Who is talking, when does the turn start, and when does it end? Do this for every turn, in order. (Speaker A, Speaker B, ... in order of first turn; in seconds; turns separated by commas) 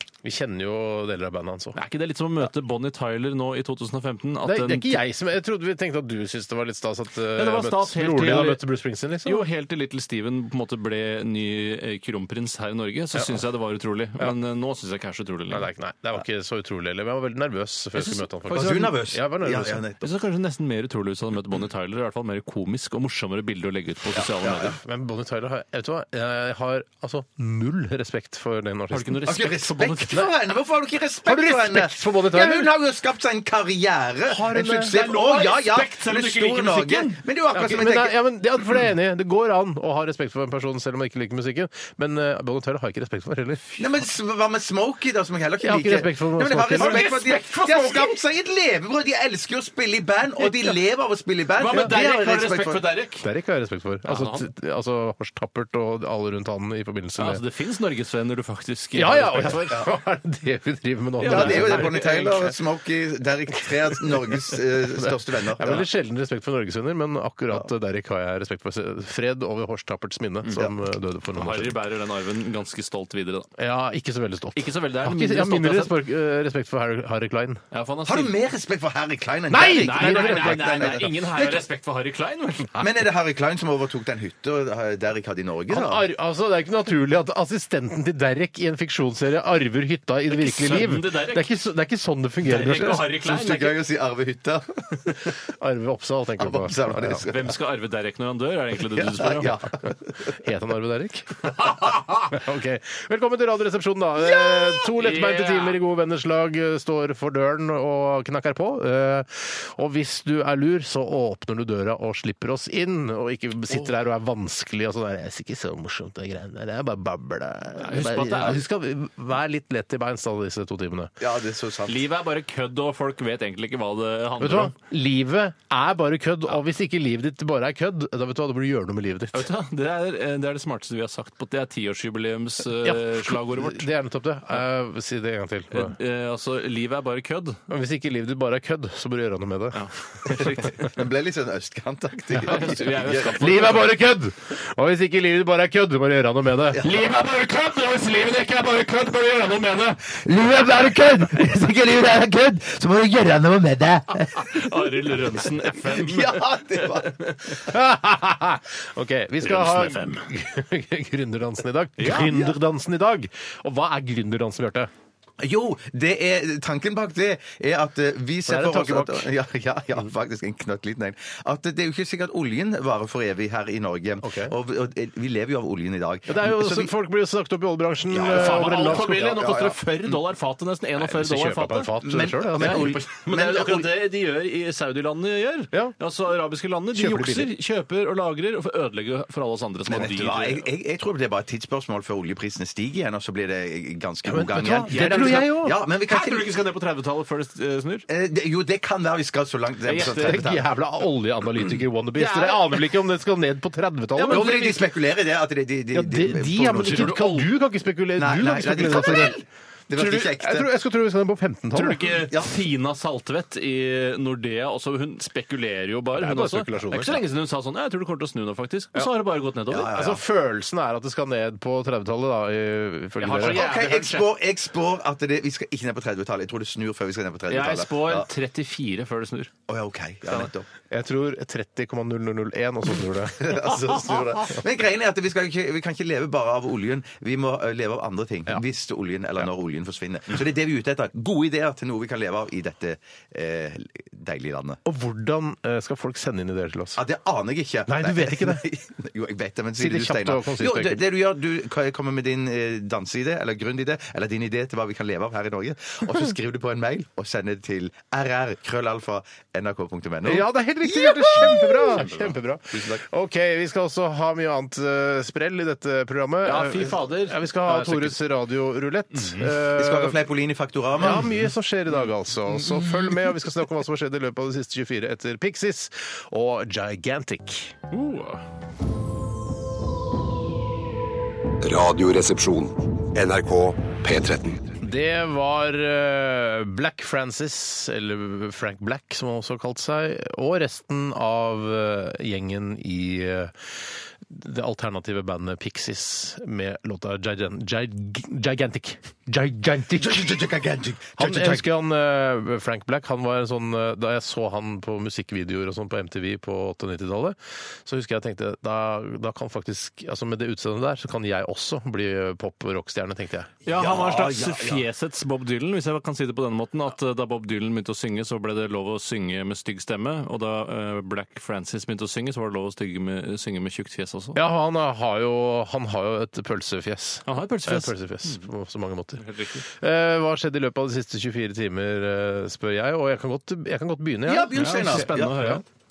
Speaker A: 0.2-1.8, Speaker B: 1.8-5.0, Speaker A: 4.4-9.5, Speaker B: 7.4-8.6, Speaker B: 9.2-15.7, Speaker A: 13.1-13.4, Speaker A: 15.5-19.8, Speaker B: 17.9-18.9, Speaker C: 18.5-20.1, Speaker B: 20.0-24.8, Speaker C: 24.1-24.8, Speaker A: 24.8-29.3, Speaker B: 28.9-30.3, Speaker C: 29.3-38.2, Speaker A: 31.2-32.7, Speaker A: 34.3-35.0, Speaker B: 34.9-37.2, Speaker A: 37.5-43.8, Speaker C: 43.8-52.8, Speaker A: 45.6-47.2, Speaker B: 46.8-48.2, Speaker A: 50.4-50.8, Speaker B: 51.6-53.3, Speaker A: 53.2-57.4, Speaker B: 54.1-54.5, Speaker B: 57.2-59.7, Speaker A: 58.9-62.5, Speaker B: 61.2-62.5, Speaker C: 61.2-65.9, Speaker A: 64.1-71.8, Speaker B: 70.4-70.7, Speaker B: 71.3-73.5, Speaker A: 73.6-77.6, Speaker B: 74.6-76.0, Speaker B: 77.7-78.3, Speaker C: 78.1-81.7, Speaker A: 79.5-81.1, Speaker B: 79.8-82.8, Speaker C: 82.8-86.0, Speaker A: 85.7-93.0, Speaker B: 90.3-91.5, Speaker B: 92.5-93.8, Speaker C: 92.7-95.4, Speaker A: 95.5-97.2, Speaker C: 96.4-97.5, Speaker B: 97.2-99.6, Speaker C: 98.9-100.4, Speaker A: 100.3-121.1, Speaker B: 101.4-102.3, Speaker B: 105.0-105.8, Speaker B: 117.8-118.6, Speaker C: 121.2-122.0, Speaker B: 121.9-124.8, Speaker A: 124.4-129.5, Speaker B: 129.3-133.9, Speaker A: 132.8-135.9, Speaker B: 135.7-137.6, Speaker A: 137.7-140.3, Speaker B: 139.7-141.0, Speaker C: 140.4-143.8, Speaker B: 142.4-143.8, Speaker A: 142.5-150.0, Speaker C: 146.7-147.0, Speaker D: 146.9-147.9, Speaker D: 148.9-149.5, Speaker D: 150.0-154.5, Speaker B: 154.4-157.6, Speaker C: 155.8-157.2, Speaker A: 157.6-164.9, Speaker B: 159.4-160.3, Speaker B: 162.0-162.3, Speaker C: 162.1-162.6, Speaker C: 165.4-176.9, Speaker A: 168.5-169.3, Speaker A: 174.2-174.6, Speaker A: 176.3-179.4, Speaker C: 178.1-180.1, Speaker B: 178.3-181.9, Speaker A: 181.0-183.0, Speaker C: 182.0-183.9, Speaker B: 182.6-190.7, Speaker A: 186.9-187.5, Speaker C: 189.9-196.6, Speaker A: 194.2-195.8, Speaker B: 194.9-198.1, Speaker C: 198.1-200.7, Speaker B: 199.9-200.4, Speaker A: 200.0-204.7, Speaker B: 202.2-202.6, Speaker B: 204.2-204.8, Speaker C: 204.3-207.2, Speaker A: 205.9-209.4, Speaker B: 206.8-207.5, Speaker C: 208.2-210.7, Speaker A: 209.9-212.2, Speaker B: 211.7-219.9, Speaker A: 216.1-217.2, Speaker C: 219.7-220.2, Speaker A: 219.8-223.6, Speaker B: 223.2-224.3, Speaker C: 223.4-228.3, Speaker B: 227.5-229.5, Speaker C: 229.7-230.7, Speaker A: 230.9-233.9, Speaker C: 233.4-244.8, Speaker A: 244.9-247.0, Speaker C: 247.0-263.0, Speaker A: 247.9-248.7, Speaker A: 249.8-251.0, Speaker A: 260.2-270.2, Speaker B: 266.4-268.2, Speaker B: 269.1-269.5, Speaker C: 269.8-271.4, Speaker A: 271.0-277.8, Speaker B: 277.9-278.5, Speaker E: 281.6-284.8, Speaker A: 284.8-300.5, Speaker C: 299.9-301.7, Speaker A: 301.2-313.5, Speaker B: 313.6-324.4, Speaker C: 313.7-314.8, Speaker A: 324.4-335.6, Speaker B: 327.3-328.5, Speaker B: 329.2-329.6, Speaker C: 334.2-335.6, Speaker B: 334.6-335.6